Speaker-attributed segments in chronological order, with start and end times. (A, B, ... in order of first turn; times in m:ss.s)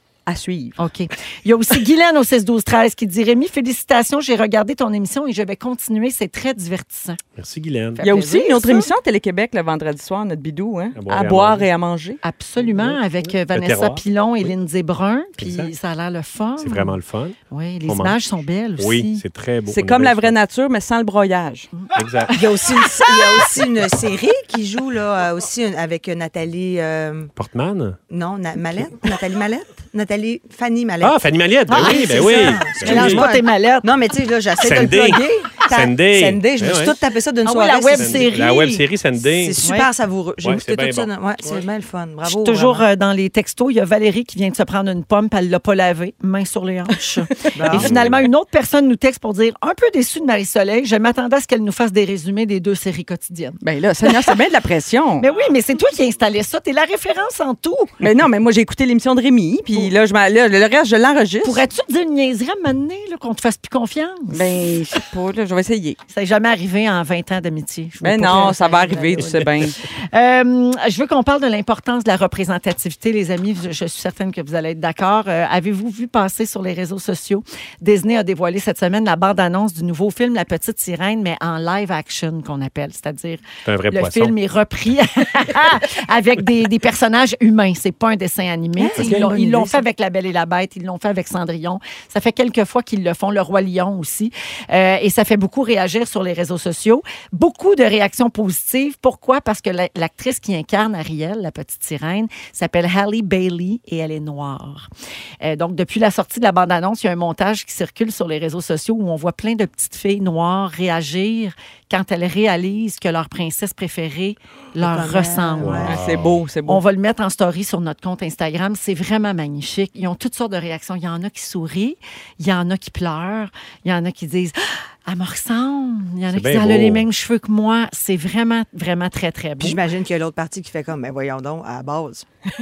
0:00.2-0:00.8 A
0:00.8-0:07.2 B
0:07.4-0:08.0 C
0:08.0-0:08.9 B
0:08.0-0:12.2 A
0:11.0-0:11.7 C
0:12.2-0:17.0 B
0:12.6-0:14.0 C
0:15.4-0:15.7 C
0:16.6-0:18.2 C
0:17.5-0:19.2 B
0:18.8-0:20.4 C
0:19.7-0:21.7 A
0:21.8-0:22.4 B
0:21.9-0:22.4 C
0:22.3-0:27.3 D
0:27.4-0:28.0 C
0:28.1-0:31.2 D
0:31.0-0:33.2 C
0:31.7-0:33.9 B
0:31.7-0:38.5 D
0:34.6-0:37.0 C
0:37.4-0:38.8 B
0:37.9-0:39.6 C
0:39.2-0:42.8 D
0:39.6-0:39.9 B
0:40.4-0:41.6 C
0:42.2-0:54.3 B
0:47.5-0:47.9 D
0:47.7-0:48.3 C
0:53.6-0:55.2 A
0:55.2-0:57.9 B
0:58.0-1:01.6 A
1:01.4-1:04.5 B
1:04.3-1:06.0 A
1:06.1-1:44.9 B
1:08.0-1:09.8 A
1:23.6-1:24.3 C
1:28.8-1:29.8 D
1:29.0-1:29.3 C
1:45.4-1:55.9 B
1:54.8-1:56.0 D
1:55.6-1:56.4 C
1:55.8-1:56.8 A
1:56.7-2:09.8 B
2:06.3-2:07.1 C
2:09.6-2:12.3 D